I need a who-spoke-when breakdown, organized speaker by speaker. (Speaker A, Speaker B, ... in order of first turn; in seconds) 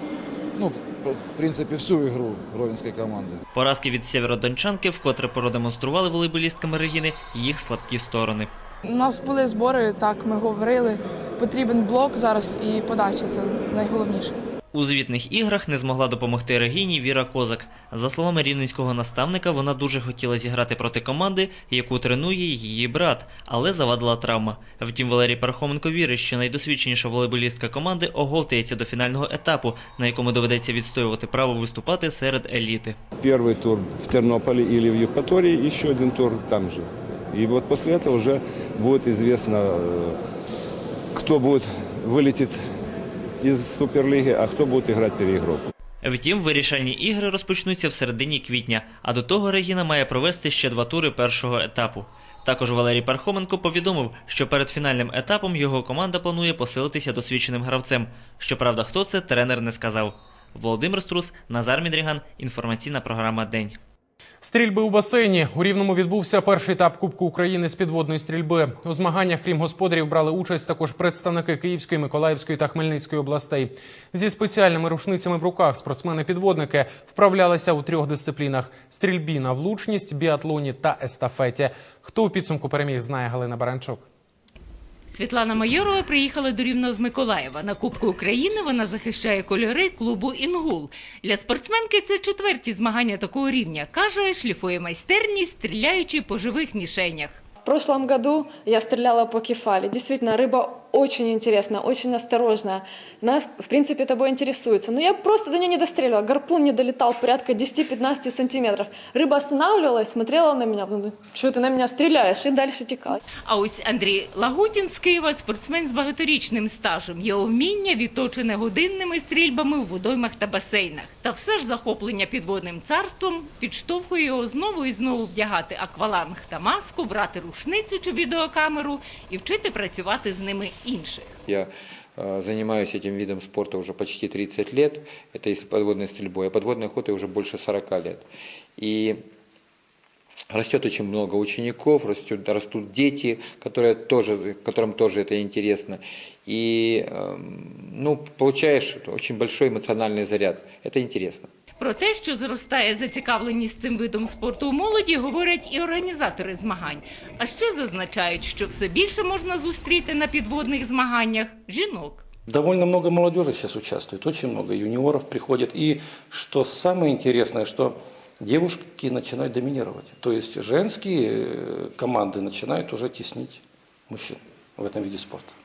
Speaker A: 0.6-3.4
Speaker B: 3.5-8.5, 14.7-33.0, 46.0-63.8
Speaker C: 9.0-10.9, 11.5-14.3
Speaker D: 33.3-36.8, 37.3-39.8, 41.2-42.5, 43.4-45.5
Speaker E: 64.4-84.0
Speaker F: 85.1-97.4, 113.5-131.3, 151.8-162.2
Speaker G: 97.7-113.2
Speaker H: 131.5-138.2, 138.8-139.2, 140.5-151.5
Speaker I: 162.5-175.5